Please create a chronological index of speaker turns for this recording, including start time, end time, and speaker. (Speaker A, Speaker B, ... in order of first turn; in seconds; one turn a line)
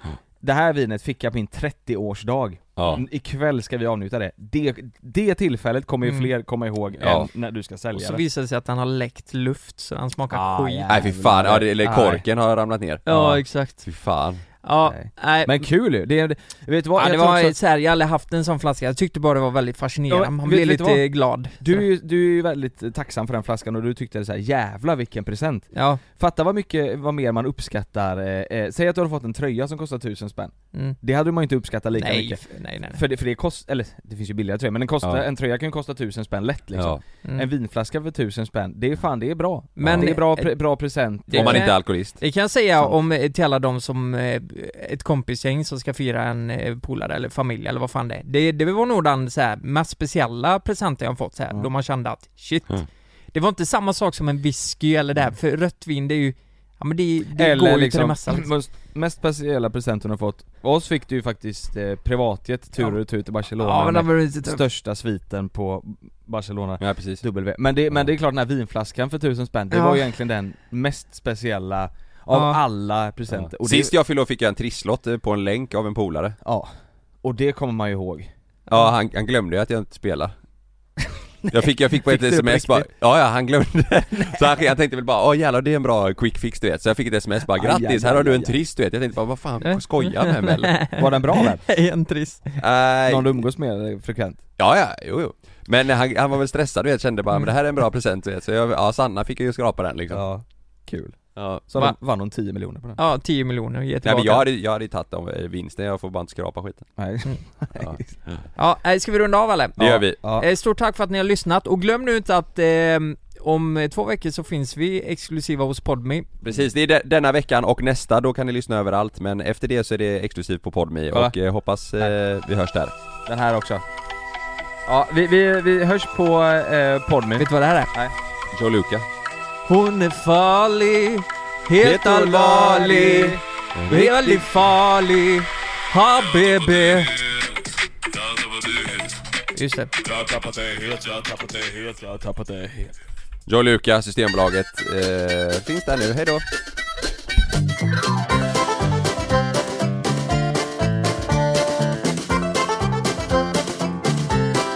Speaker A: 0.4-8.2
Speaker B: 2.8-3.0
Speaker C: 6.0-6.3
Speaker B: 7.0-7.3
Speaker C: 7.9-11.0
Speaker A: 10.3-12.2
Speaker B: 10.9-14.4
Speaker C: 13.1-13.8
Speaker C: 14.6-15.7
Speaker A: 14.8-17.6
Speaker C: 16.9-21.9
Speaker A: 20.1-21.1
Speaker A: 21.6-41.7
Speaker C: 25.7-26.0
Speaker C: 31.9-33.0
Speaker B: 36.7-37.0
Speaker C: 37.2-37.5
Speaker C: 39.8-40.5
Speaker B: 39.8-40.1
Speaker C: 41.3-58.5
Speaker B: 41.3-42.2
Speaker A: 57.3-73.9
Speaker C: 63.6-64.6
Speaker B: 66.8-67.2
Speaker C: 69.7-70.0
Speaker C: 72.3-72.6
Speaker B: 73.3-76.4
Speaker A: 76.4-76.7
Speaker A: 77.2-78.3
Speaker B: 78.7-80.3
Speaker A: 81.4-82.9
Speaker B: 81.5-90.9
Speaker A: 84.2-84.7
Speaker A: 87.5-88.6
Speaker C: 89.6-92.5
Speaker A: 91.0-91.6
Speaker B: 92.6-93.4
Speaker A: 93.1-94.4
Speaker B: 94.6-100.3
Speaker A: 100.1-101.2
Speaker B: 101.4-101.7
Speaker A: 101.7-103.0
Speaker C: 103.0-104.5
Speaker B: 104.0-106.9
Speaker A: 107.0-108.2
Speaker B: 107.8-108.4
Speaker C: 108.6-116.3
Speaker B: 109.8-110.2
Speaker A: 109.8-110.5
Speaker B: 116.4-123.0
Speaker A: 123.3-123.8
Speaker A: 124.9-128.2
Speaker C: 127.4-127.9
Speaker B: 128.5-129.1
Speaker C: 129.7-137.2
Speaker A: 131.8-134.5
Speaker B: 133.8-134.1
Speaker A: 138.4-138.8
Speaker C: 139.5-139.9
Speaker A: 140.1-142.9
Speaker B: 143.5-146.4